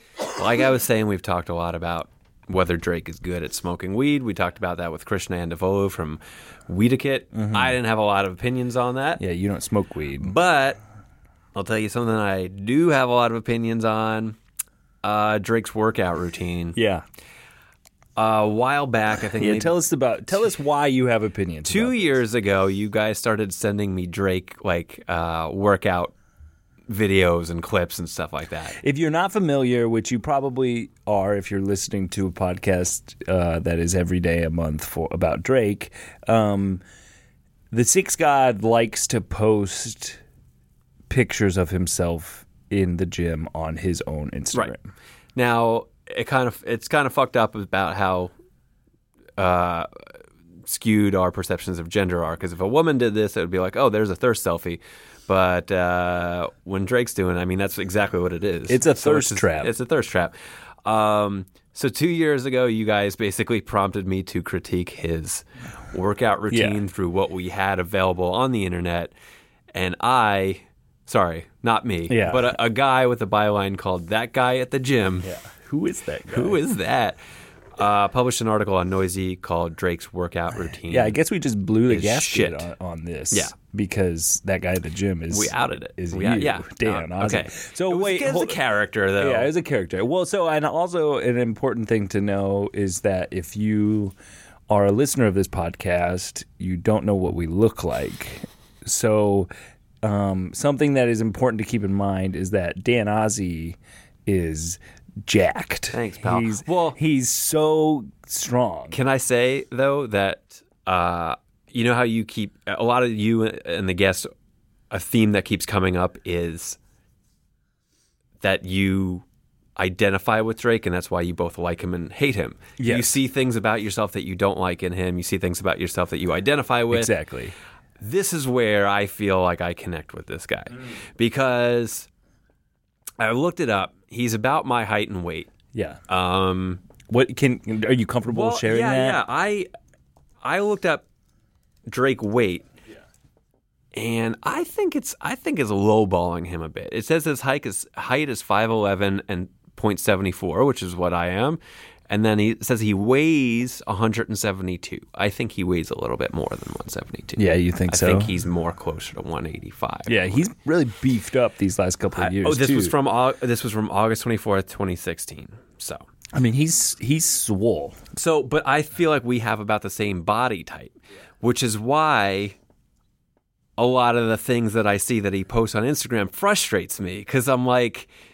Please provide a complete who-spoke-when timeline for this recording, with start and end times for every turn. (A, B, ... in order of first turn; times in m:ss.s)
0:00.4-0:09.2 A
0:07.3-0:07.7 B
0:09.2-0:10.3 B
0:10.2-0:10.8 A
0:11.5-0:14.4 A
0:15.0-0:16.8 A
0:16.7-0:17.0 B
0:18.2-0:19.8 A
0:19.4-0:22.2 B
0:21.7-0:26.1 A
0:26.9-0:28.8 A
0:28.7-0:36.8 B
0:37.7-0:40.2 B
0:41.1-0:44.8 B
0:45.3-0:48.3 A
0:49.4-0:49.9 A
0:50.6-1:00.3 A
0:58.7-0:59.7 B
1:00.8-1:09.1 A
1:06.5-1:06.8 B
1:09.7-1:15.3 A
1:12.1-1:12.5 B
1:15.2-1:16.6 B
1:16.3-1:17.2 A
1:17.8-1:21.2 A
1:20.9-1:28.6 B
1:21.9-1:22.7 A
1:25.3-1:29.5 A
1:29.2-1:34.1 B
1:34.7-1:39.5 B
1:40.0-1:49.0 B
1:45.9-1:47.0 A
1:48.9-1:54.3 A
1:54.9-1:56.8 A
1:58.4-1:59.2 A
1:59.8-2:07.1 A
2:02.8-2:03.1 B
2:06.9-2:07.5 B
2:08.0-2:12.1 A
2:13.2-2:15.5 A
2:15.7-2:16.0 B
2:16.1-2:16.8 A
2:17.1-2:19.2 B
2:18.3-2:19.7 A
2:20.4-2:21.0 A
2:21.9-2:22.7 A
2:23.9-2:40.2 A
2:37.4-2:38.3 B
2:40.1-2:43.0 B
2:42.2-2:46.1 A
2:46.3-2:48.0 B
2:48.1-2:52.6 A
2:53.8-2:58.1 A